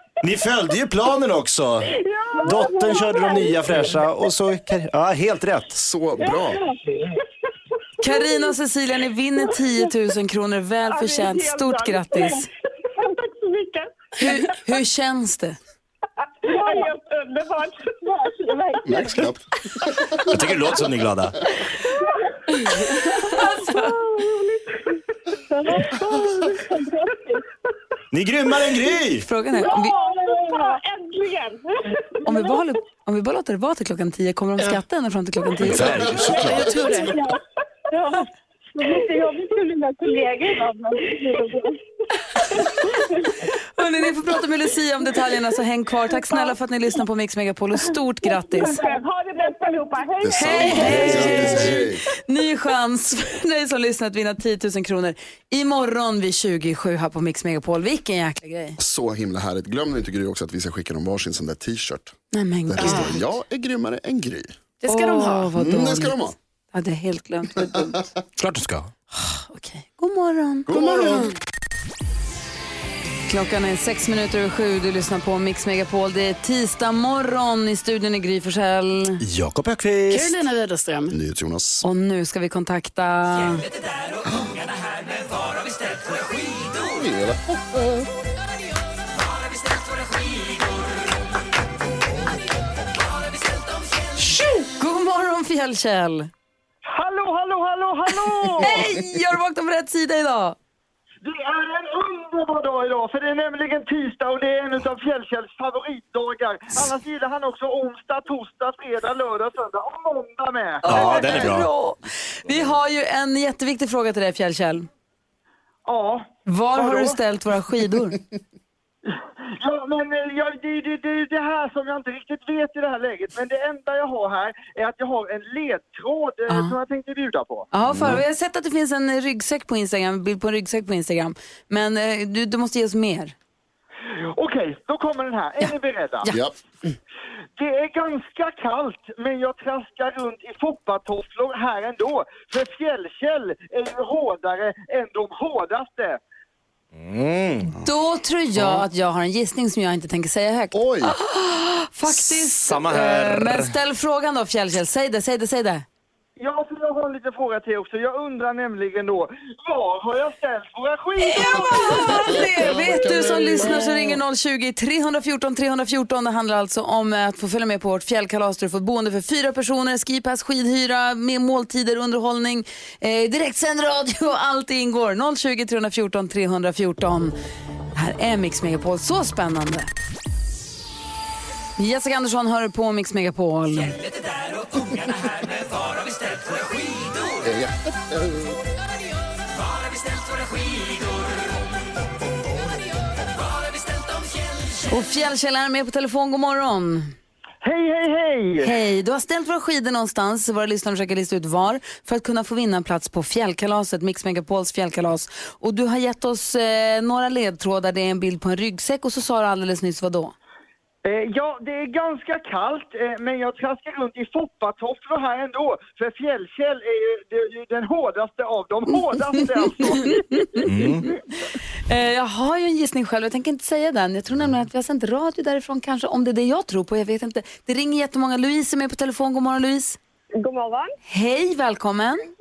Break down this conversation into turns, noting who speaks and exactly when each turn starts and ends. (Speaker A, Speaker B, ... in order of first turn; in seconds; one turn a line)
Speaker A: 0.2-1.9
Speaker B: 1.8-3.9
Speaker A: 2.4-5.8
Speaker C: 5.8-6.6
Speaker B: 6.2-7.1
Speaker D: 8.0-12.5
Speaker B: 10.9-14.3
Speaker D: 14.2-15.6
Speaker B: 16.4-19.4
Speaker C: 18.9-20.2
Speaker A: 20.3-21.4
Speaker B: 20.3-20.8
Speaker B: 21.6-24.6
Speaker B: 25.5-27.4
Speaker A: 28.1-29.2
Speaker B: 28.5-29.0
Speaker D: 29.2-30.0
Speaker B: 29.5-32.6
Speaker D: 32.3-36.0
Speaker A: 35.6-36.8
Speaker B: 36.1-37.4
Speaker C: 36.1-36.6
Speaker E: 36.4-37.2
Speaker B: 37.9-41.8
Speaker B: 42.4-43.3
Speaker D: 43.8-48.8
Speaker B: 48.4-52.0
Speaker C: 50.2-52.0
Speaker D: 50.4-58.8
Speaker C: 58.8-64.5
Speaker D: 62.3-63.3
Speaker E: 62.8-63.1
Speaker E: 64.8-65.5
Speaker D: 64.9-68.1
Speaker C: 65.5-66.3
Speaker A: 68.4-68.9
Speaker D: 69.1-71.3
Speaker C: 70.7-71.3
Speaker D: 73.3-79.2
Speaker A: 79.2-80.4
Speaker E: 80.1-81.2
Speaker C: 81.1-81.8
Speaker D: 81.8-83.7
Speaker C: 86.8-88.1
Speaker D: 94.2-96.3
Speaker F: 96.9-98.9
Speaker D: 98.6-100.6
Speaker F: 101.2-110.8
Speaker D: 110.8-114.9
Speaker A: 110.8-111.7
Speaker F: 115.9-117.2
Speaker D: 116.5-118.2
Speaker F: 119.1-127.7
Speaker D: 126.5-126.8
Speaker D: 127.7-133.3
Speaker C: 127.9-128.2
Speaker F: 134.4-136.3
Speaker C: 136.3-136.6
Speaker F: 137.6-146.2
Speaker A: 146.9-147.7
Speaker D: 147.8-155.8
Speaker C: 148.6-148.8
Speaker C: 150.7-151.1
Speaker A: 152.1-153.7
Speaker F: 156.4-163.8
Speaker D: 161.2-177.3
Speaker C: 162.5-164.1
Speaker D: 177.9-179.9
Speaker D: 181.8-184.0
Speaker C: 187.4-188.6
Speaker D: 194.9-197.2
Speaker F: 197.6-198.8
Speaker D: 198.6-210.3
Speaker F: 211.0-220.7
Speaker D: 220.0-220.7
Speaker A: 220.6-221.1
Speaker D: 221.9-230.0
Speaker B: 230.4-230.9
Speaker D: 231.1-232.2